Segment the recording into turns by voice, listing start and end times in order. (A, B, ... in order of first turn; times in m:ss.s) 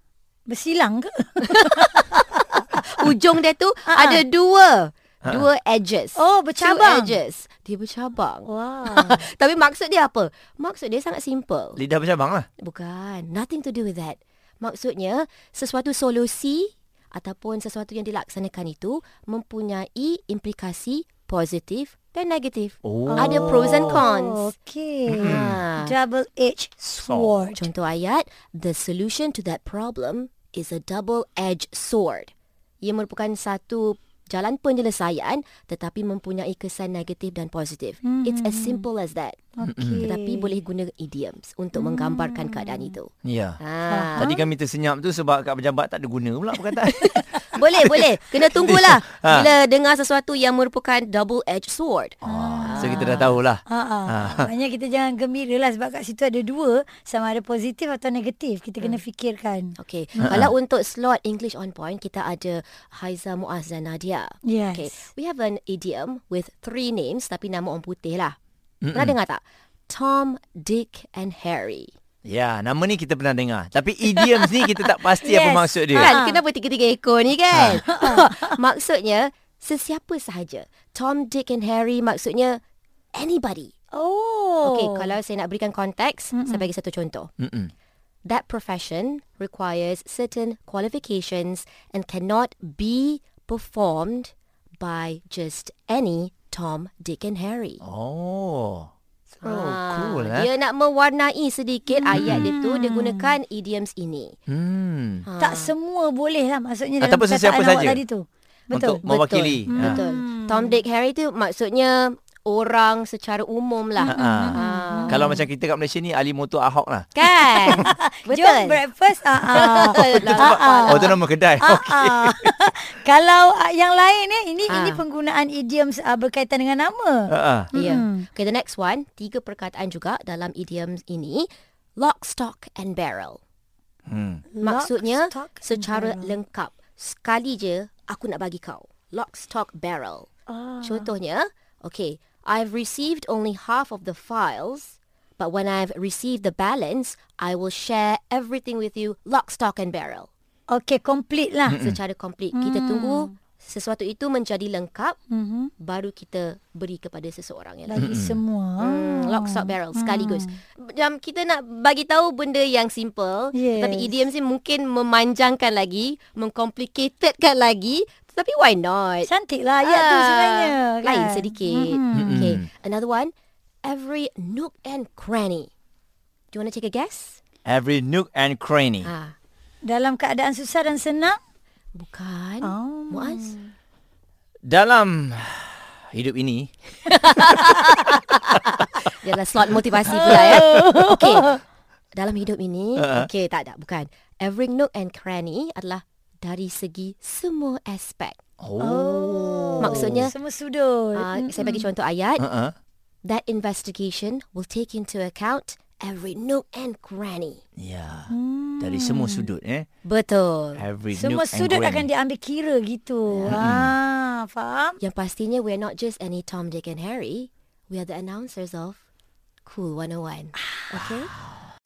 0:00.5-0:02.8 A
0:01.5-0:11.8 B
0:03.9-0:04.2 A
0:06.2-0:07.2 A
0:08.5-0:09.3 A
0:11.8-0:12.5 C
0:12.6-0:24.5 B
0:22.8-0:24.0 C
0:23.1-0:27.7 A
0:25.1-0:25.6 C
0:25.2-0:25.9 B
0:26.9-0:27.5 C
0:27.5-0:39.4 B
0:38.0-0:38.8 A
0:39.6-0:40.6 A
0:39.6-0:40.1 C
0:40.0-0:44.3 B
0:41.8-0:42.9 A
0:43.2-0:43.6 C
0:43.9-0:44.4 A
0:44.2-0:49.5 C
0:47.0-0:53.4 B
0:52.2-0:54.5 C
0:52.2-1:00.4 A
0:59.8-1:08.4 B
1:00.2-1:00.5 C
1:04.4-1:05.0 A
1:08.8-1:09.2 C
1:08.9-1:11.9 B
1:12.3-1:16.2 C
1:15.2-1:16.4 A
1:15.9-1:22.6 B
1:17.5-1:17.8 C
1:17.8-1:18.5 A
1:23.1-1:23.7 B
1:23.9-1:25.2 A
1:24.6-1:27.3 B
1:26.3-1:26.7 A
1:27.4-1:27.7 C
1:28.2-1:37.8 B
1:37.8-1:38.9 C
1:39.4-1:40.5 C
1:39.4-1:44.4 B
1:41.9-1:43.3 A
1:42.1-1:42.5 C
1:44.5-1:45.3 C
1:45.2-1:45.7 B
1:45.4-1:49.0 A
1:47.0-1:48.0 C
1:48.7-1:50.0 C
1:49.0-1:55.3 B
1:49.7-1:50.8 A
1:54.0-1:55.4 A
1:54.1-1:57.1 C
1:57.2-1:58.8 B
1:57.7-2:08.3 A
1:59.5-2:01.2 B
2:00.0-2:02.5 C
2:04.7-2:05.0 B
2:07.3-2:07.8 C
2:07.7-2:13.4 B
2:14.1-2:14.5 C
2:14.5-2:16.4 A
2:14.6-2:20.3 B
2:20.5-2:21.1 A
2:20.8-2:30.3 B
2:30.7-2:31.8 A
2:31.7-2:32.0 C
2:31.8-2:35.2 B
2:32.5-2:33.3 A
2:35.3-2:35.7 A
2:35.8-2:38.1 B
2:37.9-2:40.6 A
2:38.0-2:38.4 C
2:38.8-2:53.3 B
2:43.5-2:44.2 A
2:49.3-2:52.5 A
2:52.1-2:52.6 C
2:53.8-2:55.7 B
2:56.5-2:57.4 B
2:57.7-2:59.1 C
2:59.0-2:59.4 B
2:59.8-3:01.4 A
3:02.0-3:03.6 B
3:02.6-3:03.7 A
3:04.7-3:07.2 C
3:07.1-3:08.2 B
3:09.0-3:11.6 B
3:10.1-3:11.6 A
3:12.2-3:18.4 B
3:13.0-3:13.3 C
3:18.6-3:20.3 C
3:18.8-3:21.9 A
3:19.8-3:20.3 B
3:21.2-3:22.4 B
3:22.4-3:22.8 C
3:23.2-3:27.6 B
3:27.8-3:29.9 C
3:28.3-3:29.5 A
3:30.0-3:30.8 B
3:30.8-3:32.1 C
3:31.1-3:35.0 A
3:33.3-3:33.6 B
3:33.5-3:33.9 C
3:35.0-3:39.0 B
3:39.6-3:41.3 B